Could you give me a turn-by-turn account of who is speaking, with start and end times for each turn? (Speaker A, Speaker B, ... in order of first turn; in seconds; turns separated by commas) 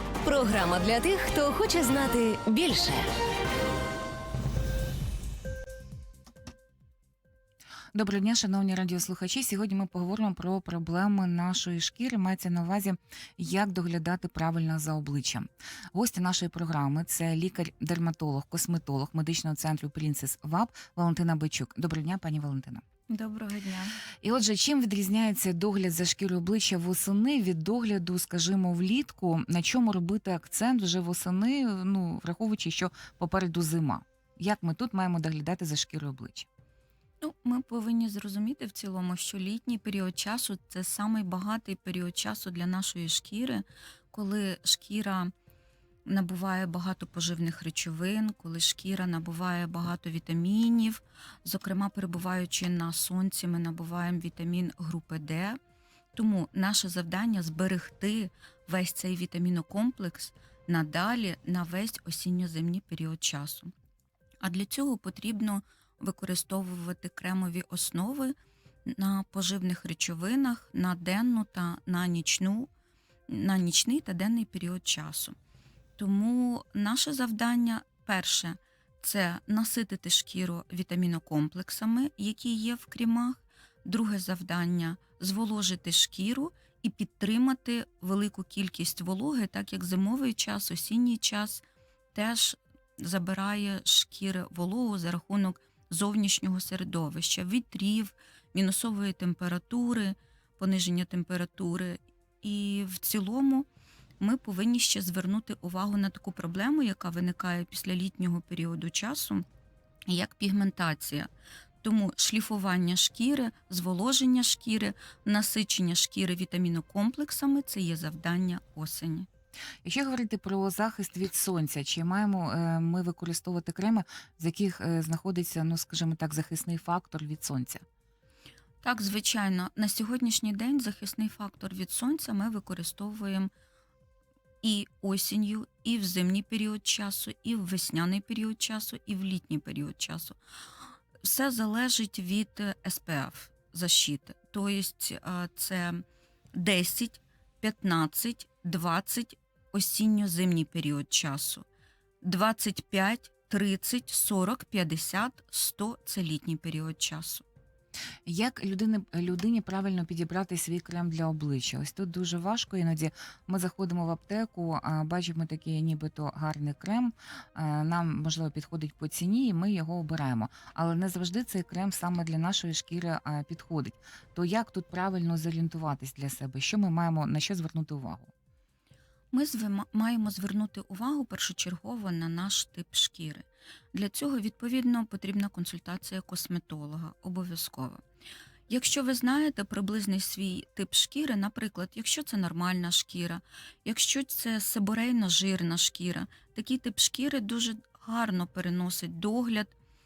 Speaker A: 0.2-3.1, Speaker B: 7.9-22.8, Speaker C: 23.1-24.0, Speaker B: 24.2-36.5, Speaker C: 37.2-45.3, Speaker C: 46.0-55.6, Speaker C: 56.1-63.7, Speaker C: 64.4-68.3, Speaker C: 68.8-72.7, Speaker C: 73.3-75.3, Speaker C: 76.0-103.7, Speaker C: 104.2-109.4, Speaker C: 110.1-111.3, Speaker C: 111.8-119.3, Speaker B: 119.8-127.8, Speaker C: 128.8-133.5, Speaker C: 134.6-140.4, Speaker C: 141.2-146.0, Speaker C: 146.5-151.7, Speaker C: 152.2-157.4, Speaker B: 158.2-178.3, Speaker C: 179.3-188.0, Speaker C: 188.7-199.7